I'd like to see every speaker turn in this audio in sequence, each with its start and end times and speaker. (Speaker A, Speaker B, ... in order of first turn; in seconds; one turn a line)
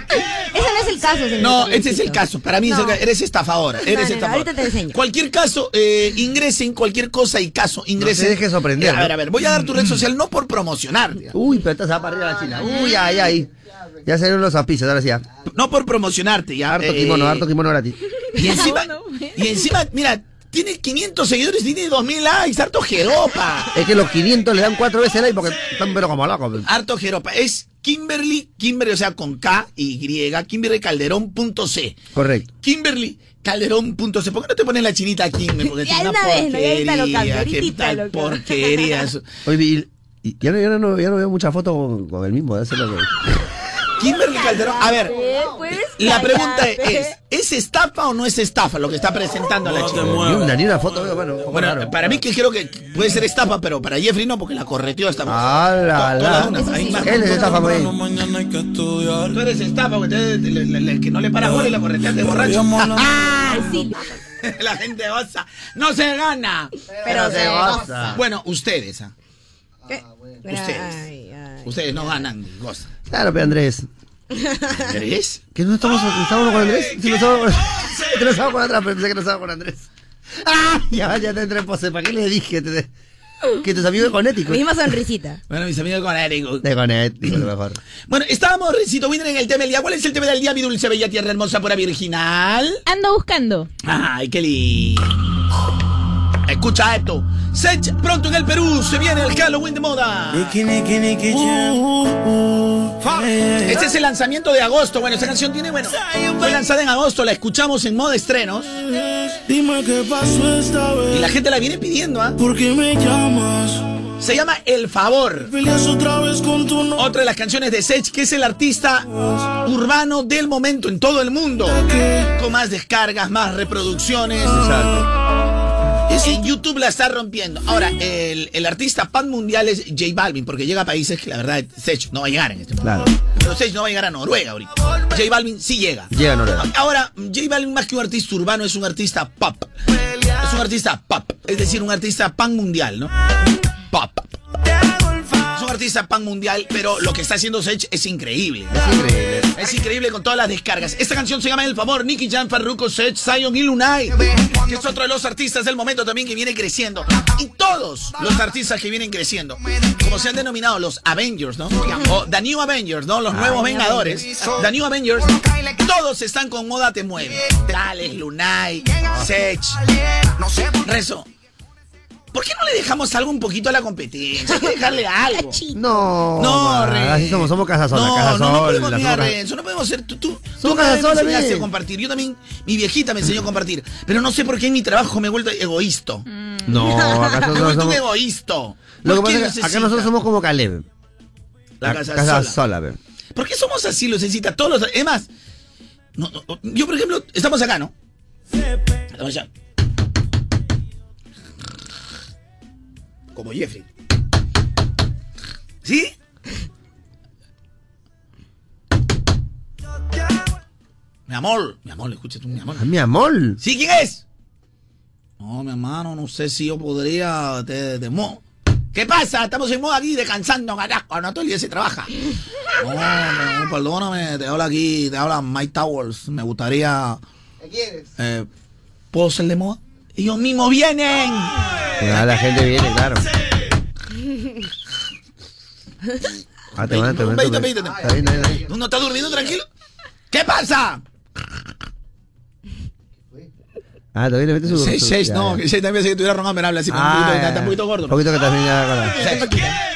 Speaker A: 0.5-3.0
Speaker B: 1.4-11.3
Speaker A: 3.8-5.0
Speaker C: 8.0-9.1
Speaker C: 11.3-13.5
Speaker C: 14.0-15.2
Speaker B: 15.5-17.5
Speaker C: 16.7-18.0
Speaker B: 18.3-23.7
Speaker D: 18.4-19.6
Speaker C: 23.7-26.7
Speaker B: 26.6-32.0
Speaker C: 32.1-32.5
Speaker B: 32.6-39.3
Speaker A: 35.6-39.1
Speaker C: 39.5-43.1
Speaker B: 44.0-45.2
Speaker A: 44.4-47.1
Speaker B: 46.0-50.3
Speaker E: 49.7-50.5
Speaker C: 49.9-52.2
Speaker B: 51.5-57.8
Speaker C: 55.2-57.9
Speaker A: 56.3-57.6
Speaker E: 57.4-59.4
Speaker B: 59.3-66.7
Speaker E: 61.5-63.4
Speaker A: 63.4-64.0
Speaker A: 67.0-67.9
Speaker C: 67.0-68.2
Speaker B: 67.4-69.1
Speaker A: 69.9-72.2
Speaker B: 70.5-71.1
Speaker B: 71.6-72.9
Speaker C: 73.1-73.9
Speaker A: 74.3-74.9
Speaker B: 74.7-75.4
Speaker C: 75.5-82.9
Speaker C: 83.6-84.7
Speaker A: 84.5-85.4
Speaker B: 85.5-86.7
Speaker C: 86.6-87.8
Speaker B: 88.1-92.8
Speaker D: 92.8-93.7
Speaker B: 93.8-95.3
Speaker B: 96.5-100.6
Speaker E: 100.4-103.9
Speaker B: 103.6-108.8
Speaker E: 109.2-111.3
Speaker B: 111.1-112.4
Speaker E: 112.4-113.9
Speaker B: 114.2-115.5
Speaker E: 115.5-117.0
Speaker B: 117.0-119.1
Speaker B: 119.6-124.8
Speaker E: 121.9-122.2
Speaker C: 124.5-125.1
Speaker B: 126.1-139.7
Speaker C: 132.8-133.1
Speaker C: 136.1-136.7
Speaker B: 140.3-143.1
Speaker B: 143.9-144.3
Speaker B: 145.5-148.9
Speaker C: 148.7-149.6
Speaker B: 149.5-169.8
Speaker C: 163.3-164.2
Speaker B: 170.7-171.3
Speaker B: 172.3-175.6
Speaker A: 175.3-176.0
Speaker C: 175.7-179.3
Speaker B: 176.4-186.2
Speaker C: 180.6-181.7
Speaker D: 186.3-186.8
Speaker C: 186.6-188.0
Speaker A: 186.8-187.5
Speaker B: 187.4-190.1
Speaker C: 189.0-190.8
Speaker B: 191.8-192.6
Speaker C: 191.8-193.0
Speaker B: 193.3-195.3
Speaker B: 196.2-197.9
Speaker B: 199.1-199.5
Speaker B: 203.3-203.8
Speaker B: 205.8-206.1
Speaker B: 211.3-212.9
Speaker C: 212.8-213.6
Speaker B: 213.6-214.2
Speaker B: 215.4-222.2
Speaker B: 222.8-227.2
Speaker B: 228.2-228.5
Speaker B: 229.1-232.3
Speaker C: 232.0-233.3
Speaker C: 236.7-238.6
Speaker B: 236.8-239.7
Speaker B: 240.3-241.0
Speaker C: 244.1-245.6
Speaker B: 244.7-248.2
Speaker C: 246.9-249.5
Speaker B: 249.2-249.7